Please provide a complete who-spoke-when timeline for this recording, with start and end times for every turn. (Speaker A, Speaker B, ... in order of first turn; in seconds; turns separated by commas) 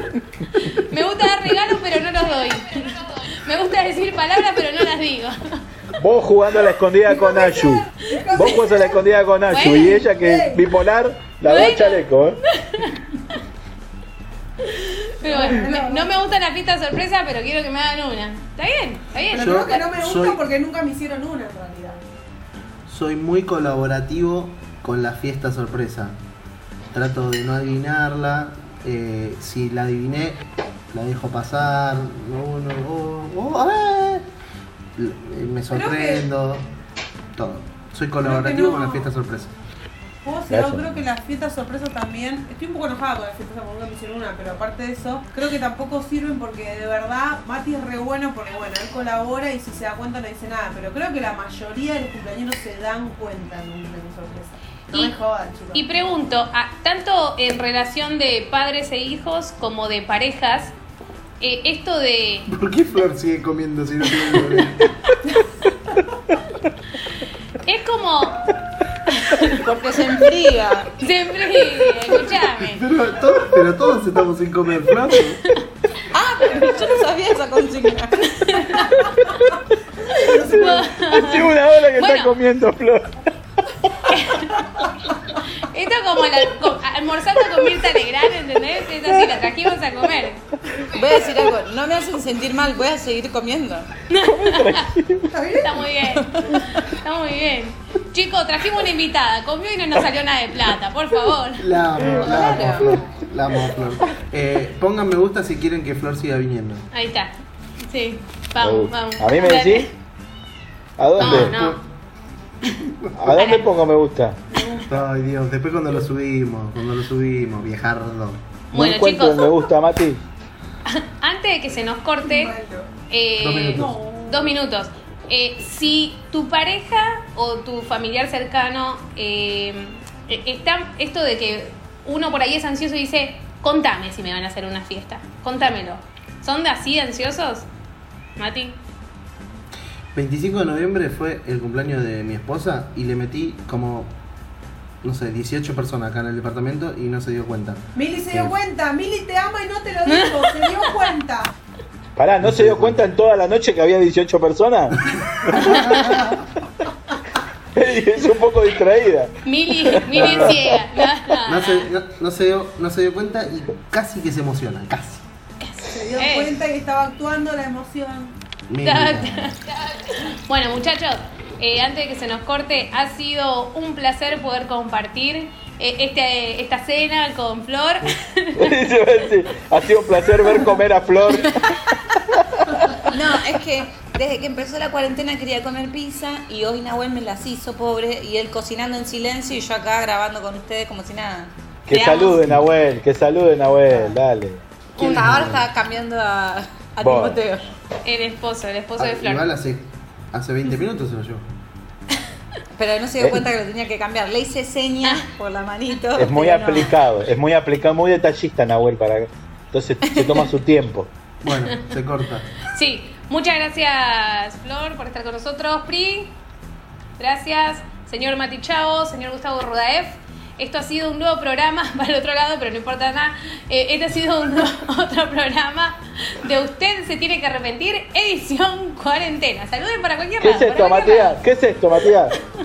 Speaker A: 0.5-5.6, Speaker B: 6.0-12.4, Speaker C: 7.1-9.0, Speaker A: 9.5-10.1, Speaker C: 10.1-10.7, Speaker A: 11.4-13.4, Speaker A: 14.6-19.8, Speaker C: 15.2-16.2, Speaker C: 19.2-22.1, Speaker D: 19.3-20.4, Speaker D: 22.9-26.2, Speaker D: 26.9-34.3, Speaker D: 35.0-36.7, Speaker C: 35.7-36.3, Speaker D: 37.3-39.5, Speaker C: 38.2-39.1, Speaker C: 40.2-55.8, Speaker B: 40.5-40.9, Speaker A: 55.7-60.7, Speaker A: 61.4-62.5, Speaker D: 62.5-65.0, Speaker A: 67.6-68.5, Speaker A: 69.1-69.6, Speaker E: 69.5-70.9, Speaker A: 71.0-72.8, Speaker D: 72.6-75.4, Speaker E: 76.1-78.6, Speaker A: 78.2-79.1, Speaker B: 79.2-79.5, Speaker A: 80.1-82.3, Speaker B: 80.1-84.8, Speaker C: 80.1-80.8, Speaker A: 84.1-84.6, Speaker A: 85.5-90.8, Speaker E: 90.9-93.9, Speaker A: 94.1-94.8, Speaker B: 94.2-95.3, Speaker C: 95.3-95.9, Speaker A: 95.6-101.7, Speaker E: 96.2-96.6, Speaker D: 101.6-106.9, Speaker E: 102.0-103.0, Speaker A: 106.9-109.9, Speaker B: 108.6-109.9, Speaker B: 111.0-111.6, Speaker D: 111.2-111.8, Speaker A: 111.2-111.8, Speaker D: 112.6-113.4, Speaker B: 113.2-114.4, Speaker A: 113.3-113.7, Speaker C: 114.5-115.0, Speaker D: 114.8-118.4, Speaker A: 118.7-119.5, Speaker B: 118.7-120.2, Speaker A: 120.8-122.5, Speaker C: 122.2-122.9, Speaker A: 123.1-137.7, Speaker D: 123.4-123.9, Speaker C: 123.7-124.6, Speaker A: 138.4-138.8, Speaker D: 140.1-144.1, Speaker D: 145.0-148.5, Speaker C: 147.9-151.5, Speaker A: 150.1-150.4, Speaker B: 152.2-156.0, Speaker D: 152.4-153.0, Speaker D: 155.2-156.4, Speaker A: 155.6-156.1, Speaker B: 157.7-160.7, Speaker A: 159.4-161.9, Speaker D: 160.1-160.7, Speaker D: 161.4-165.2, Speaker A: 165.6-166.6, Speaker C: 165.8-168.4, Speaker D: 168.7-169.6, Speaker A: 168.8-178.8, Speaker B: 178.6-183.0, Speaker E: 183.0-191.5, Speaker B: 191.9-194.6, Speaker A: 191.9-192.5, Speaker E: 193.9-194.2, Speaker D: 194.9-195.7, Speaker A: 195.0-195.2, Speaker E: 195.0-197.7, Speaker B: 197.0-197.4, Speaker A: 198.0-199.5, Speaker D: 199.0-201.4, Speaker E: 202.7-206.9, Speaker B: 203.2-203.4, Speaker B: 206.1-211.1, Speaker E: 210.1-210.5, Speaker D: 211.4-212.5, Speaker A: 211.5-211.9, Speaker A: 212.6-216.3, Speaker A: 217.2-231.4, Speaker B: 230.4-232.3